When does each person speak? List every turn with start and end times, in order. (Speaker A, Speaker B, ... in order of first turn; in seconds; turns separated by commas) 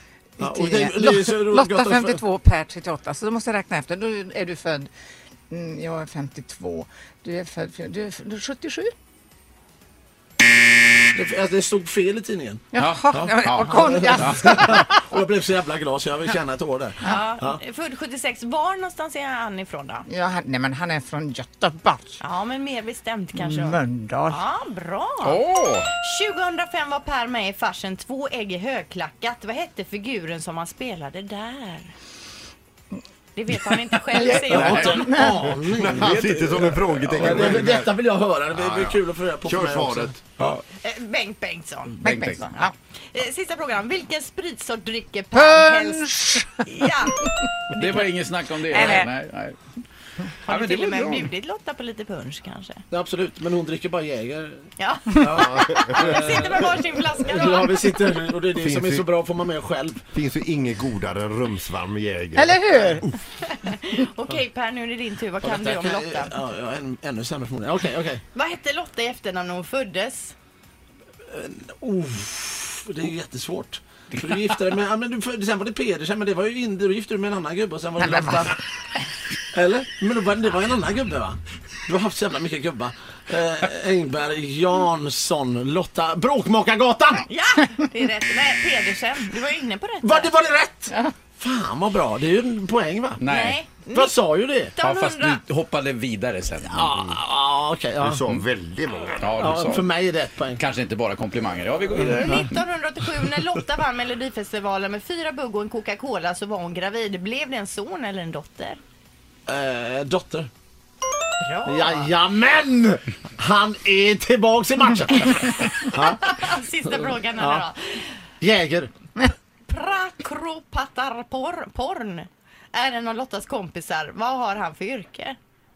Speaker A: 0.4-4.9, Speaker B: 0.4-2.2, Speaker A: 5.5-8.9, Speaker B: 11.1-17.6, Speaker A: 12.7-15.1, Speaker C: 12.8-14.6, Speaker D: 17.0-20.1, Speaker A: 20.1-22.2, Speaker D: 22.2-31.9, Speaker A: 23.4-24.4, Speaker C: 25.2-25.9, Speaker D: 33.4-35.1, Speaker A: 34.2-35.4, Speaker B: 34.3-36.1, Speaker C: 34.5-34.9, Speaker E: 35.5-37.9, Speaker C: 35.8-37.9, Speaker B: 37.2-40.5, Speaker C: 38.6-39.0, Speaker E: 39.5-40.2, Speaker D: 40.8-42.0, Speaker C: 42.0-42.5, Speaker A: 42.0-42.7, Speaker D: 42.6-48.1, Speaker A: 45.4-46.6, Speaker C: 47.8-49.6, Speaker A: 48.7-49.1, Speaker D: 48.8-49.0, Speaker D: 50.5-52.8, Speaker C: 50.5-51.3, Speaker B: 52.9-54.6, Speaker D: 54.8-57.9, Speaker B: 55.2-56.5, Speaker E: 55.5-55.9, Speaker B: 57.2-60.0, Speaker E: 58.6-59.1, Speaker E: 60.1-62.6, Speaker A: 62.4-63.1, Speaker D: 63.4-66.3, Speaker B: 65.4-68.2, Speaker D: 68.3-70.3, Speaker B: 71.3-78.6, Speaker A: 78.0-78.5, Speaker B: 79.5-87.2, Speaker D: 87.3-90.3, Speaker B: 90.0-93.2, Speaker C: 93.2-93.6, Speaker D: 93.3-94.1, Speaker B: 93.9-94.7, Speaker D: 94.8-95.4, Speaker C: 94.8-97.2, Speaker B: 96.6-98.2, Speaker E: 98.0-99.3, Speaker C: 99.2-99.9, Speaker B: 99.4-100.6, Speaker C: 100.5-102.5, Speaker D: 102.2-108.8, Speaker B: 109.5-110.5, Speaker D: 111.4-112.1, Speaker B: 111.7-116.4, Speaker D: 116.2-118.0, Speaker B: 117.4-117.7, Speaker B: 118.4-118.9, Speaker D: 119.7-125.4